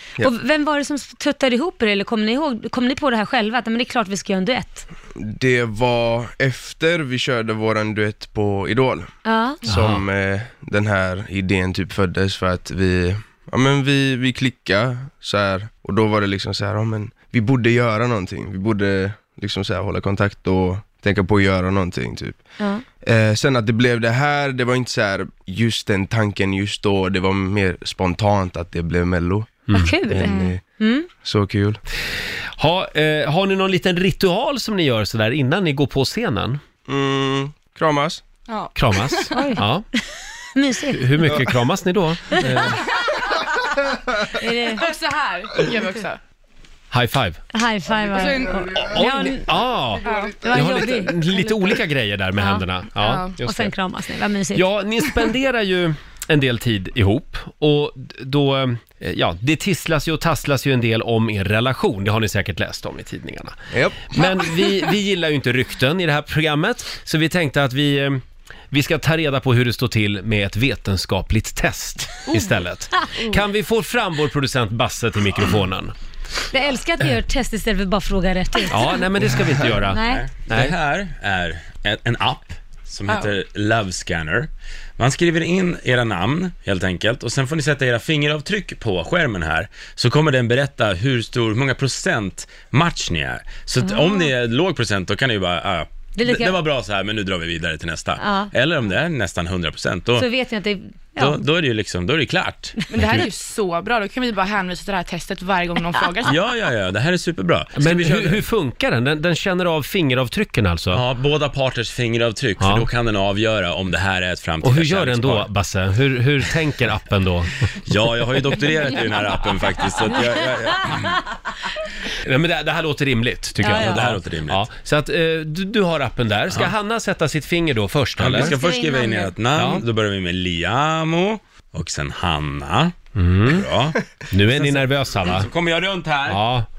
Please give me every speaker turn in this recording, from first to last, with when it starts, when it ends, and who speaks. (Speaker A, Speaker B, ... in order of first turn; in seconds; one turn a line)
Speaker A: 0.2-4.8
Speaker B: 5.2-22.5
Speaker A: 9.2-9.6
Speaker C: 9.7-10.0
Speaker B: 23.0-30.6
Speaker A: 29.7-31.1
Speaker D: 30.2-30.5
Speaker B: 31.2-31.8
Speaker C: 32.6-36.6
Speaker B: 36.9-38.2
Speaker D: 38.5-39.3
Speaker C: 38.7-39.8
Speaker A: 39.3-39.6
Speaker A: 40.5-41.4
Speaker C: 40.9-42.8
Speaker A: 42.4-42.7
Speaker A: 44.4-44.9
Speaker D: 44.7-46.2
Speaker C: 46.9-47.4
Speaker A: 47.5-49.4
Speaker D: 48.0-48.9
Speaker C: 48.9-53.7
Speaker D: 50.0-51.8
Speaker A: 50.7-51.1
Speaker A: 52.4-52.6
Speaker D: 53.0-53.3
Speaker A: 53.4-54.6
Speaker C: 54.5-75.9
Speaker B: 63.7-64.1
Speaker A: 76.5-79.0
Speaker C: 78.7-80.7
Speaker A: 79.9-80.2
Speaker E: 80.0-100.3
Speaker D: 83.1-83.3
Speaker A: 93.8-94.3
Speaker A: 96.2-96.6
Speaker A: 98.2-98.5
Speaker A: 100.2-101.4
Speaker E: 101.2-102.9
Speaker D: 102.9-106.3
Speaker E: 106.2-108.4
Speaker C: 107.8-111.0
Speaker E: 110.9-115.5
Speaker C: 112.6-112.8
Speaker C: 114.6-117.6
Speaker E: 117.8-121.1
Speaker C: 122.2-128.5
Speaker A: 123.6-124.0
Speaker E: 123.7-124.6
Speaker E: 128.2-132.9
Speaker A: 128.3-129.3
Speaker C: 129.5-129.8
Speaker C: 133.2-133.7
Speaker E: 133.4-136.4
Speaker C: 134.3-135.5
Speaker C: 136.3-136.7